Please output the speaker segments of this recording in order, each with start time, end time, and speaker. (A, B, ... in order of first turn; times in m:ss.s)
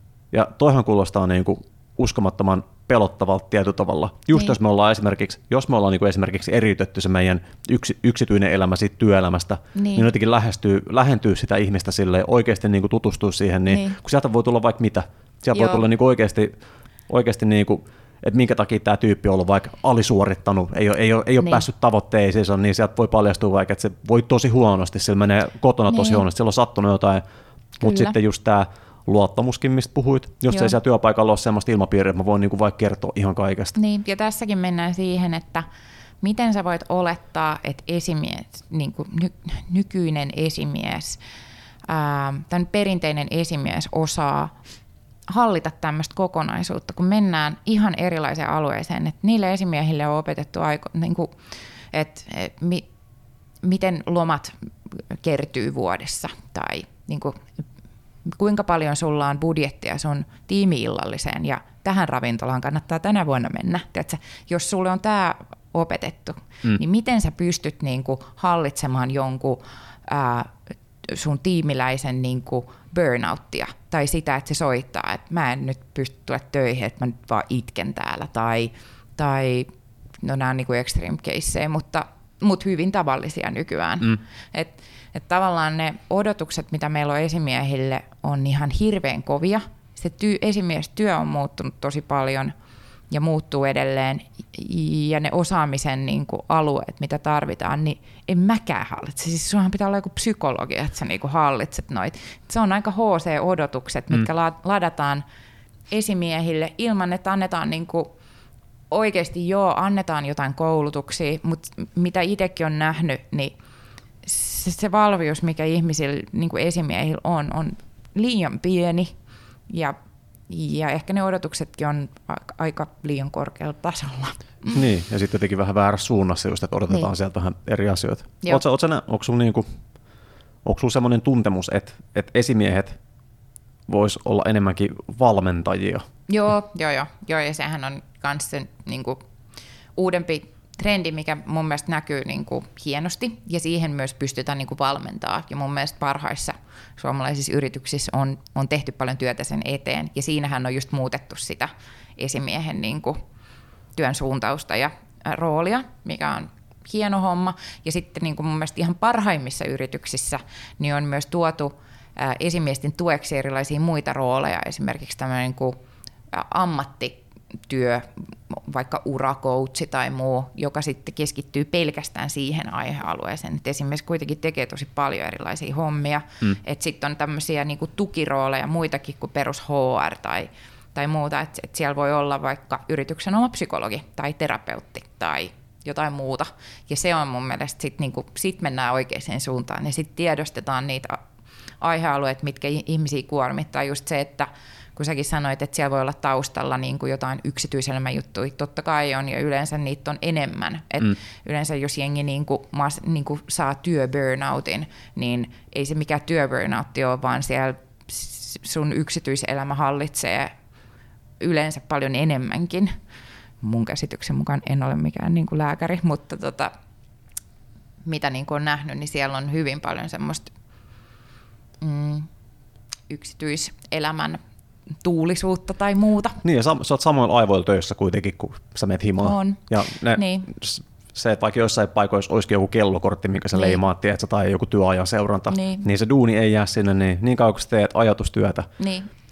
0:00.3-0:16.5 A
0:09.7-0:10.0 B
0:13.7-0:14.0 B
0:15.5-0:15.8 B
0:17.1-0:27.2 A
0:25.9-0:26.2 B
0:27.8-0:33.7 A
0:27.8-0:28.1 B
0:30.5-0:30.8 B
0:33.7-0:35.7 B
0:36.2-0:41.2 B
0:41.9-0:44.5 B
0:45.3-0:51.3 B
0:51.9-0:52.8 B
0:53.6-0:57.4 B
0:58.2-1:10.5 B
1:11.0-1:19.7 B
1:20.2-1:32.5 B
1:33.1-1:45.2 B
1:45.9-1:48.1 B
1:48.9-1:53.5 B
1:54.2-1:59.1 B
1:59.7-2:00.0 B
2:00.5-2:04.8 B
2:04.7-2:09.6 A
2:10.6-2:13.0 A
2:13.9-2:16.0 A
2:16.3-2:19.2 B
2:20.0-2:33.2 B
2:34.0-2:45.8 B
2:46.3-3:11.2 B
3:11.8-3:30.5 B
3:31.4-3:32.9 B
3:33.6-3:36.7 B
3:38.0-3:40.5 B
3:41.8-3:42.3 B
3:43.1-3:44.4 B
3:45.0-3:46.4 B
3:46.4-3:58.7 A
3:49.2-3:50.5 B
3:53.5-3:53.8 B
3:55.5-3:55.8 B
3:58.8-3:59.1 B